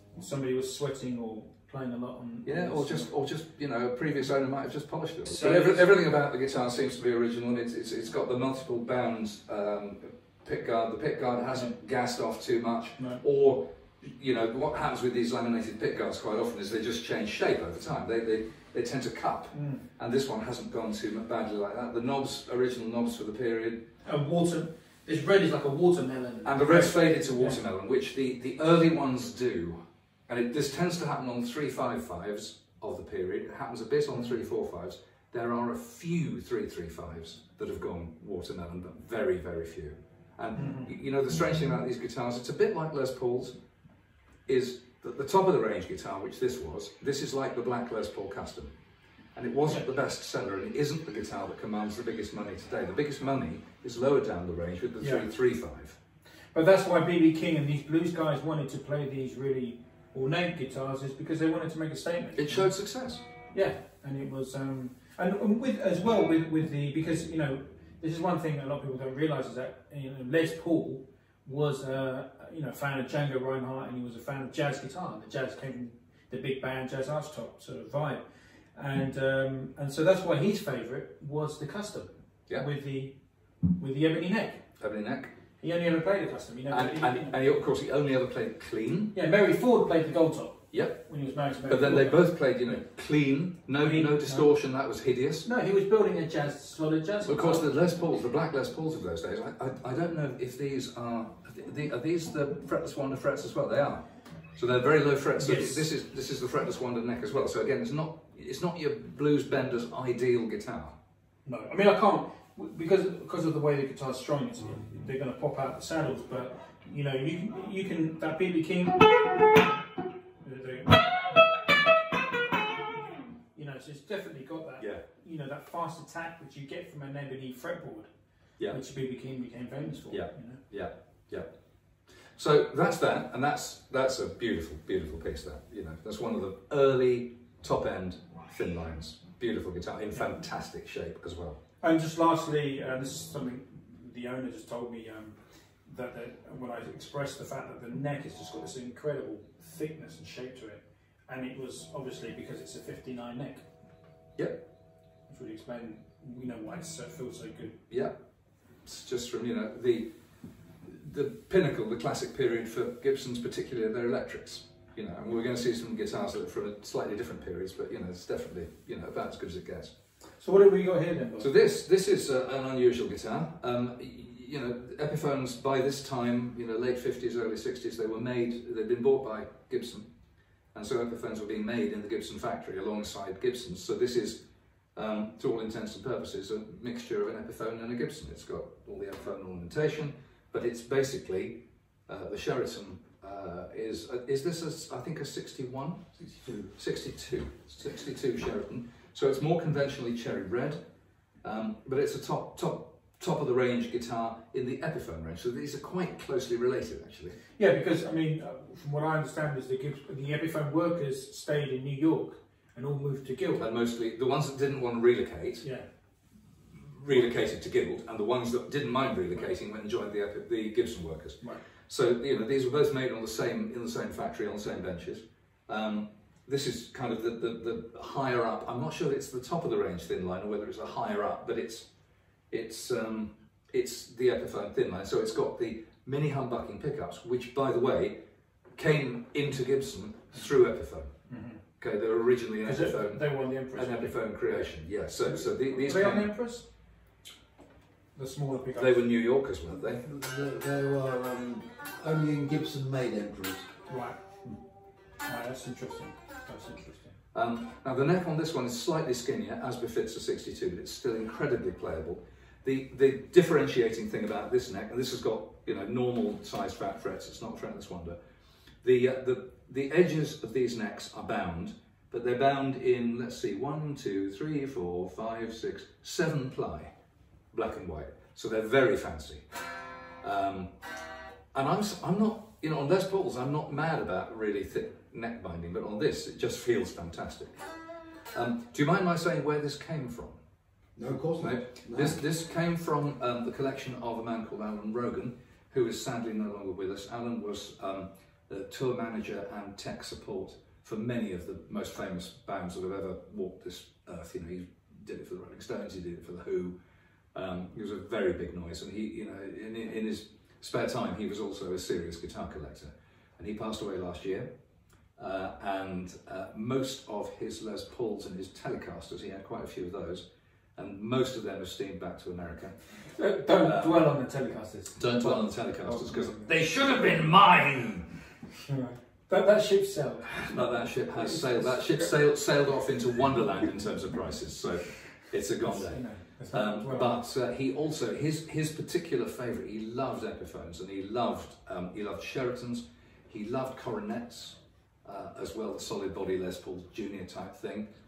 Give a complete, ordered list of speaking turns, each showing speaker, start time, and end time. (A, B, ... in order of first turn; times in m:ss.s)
0:00.2-0:03.1 A
0:02.4-0:23.8 B
0:05.2-0:05.9 A
0:19.5-0:19.8 A
0:24.0-0:27.6 A
0:26.4-0:43.5 B
0:40.6-0:40.9 A
0:44.5-0:48.7 B
0:49.4-0:56.0 B
0:55.0-0:55.2 A
0:56.5-1:02.7 A
1:02.4-1:03.2 B
1:03.5-1:18.2 A
1:18.7-1:23.2 A
1:23.8-1:24.6 A
1:24.8-1:25.3 B
1:25.6-1:27.4 A
1:26.7-1:29.1 B
1:29.1-1:32.2 A
1:30.7-1:31.0 B
1:31.7-1:35.5 B
1:33.8-1:34.5 A
1:35.4-1:37.7 A
1:37.2-1:44.0 B
1:44.6-1:51.0 B
1:45.4-1:45.8 A
1:51.5-1:59.0 A
2:00.4-2:01.1 A
2:03.5-2:08.1 A
2:08.7-2:10.6 A
2:10.1-2:11.5 B
2:12.4-2:21.6 B
2:21.8-2:33.6 A
2:35.3-2:37.8 A
2:37.9-2:38.2 B
2:38.8-2:40.1 B
2:40.8-2:49.9 B
2:50.4-2:51.5 A
2:51.4-3:00.1 B
3:00.7-3:04.4 B
3:05.0-3:16.0 B
3:16.2-3:16.7 C
3:16.8-3:20.8 B
3:21.4-3:27.4 B
3:27.6-3:33.6 A
3:33.6-3:35.6 B
3:36.8-3:51.9 B
3:52.5-3:58.2 B
3:58.8-4:01.1 B
4:01.3-4:01.6 A
4:01.8-4:03.2 B
4:02.6-4:04.2 A
4:03.7-4:06.3 B
4:05.2-4:06.7 A
4:08.2-4:09.0 A
4:08.8-4:10.0 B
4:09.9-4:13.7 C
4:13.9-4:14.2 A
4:15.2-4:17.1 A
4:17.3-4:28.2 B
4:28.8-4:36.9 B
4:37.5-4:39.4 B
4:40.2-4:40.7 B
4:41.5-4:47.5 B
4:48.3-4:50.4 B
4:51.0-4:52.2 C
4:51.4-5:06.8 B
5:07.3-5:14.5 B
5:15.2-5:22.8 B
5:23.2-5:26.5 A
5:23.5-5:24.1 B
5:25.0-5:28.1 B
5:28.5-5:30.5 A
5:30.3-5:47.9 B
5:31.2-5:32.1 A
5:35.6-5:37.2 A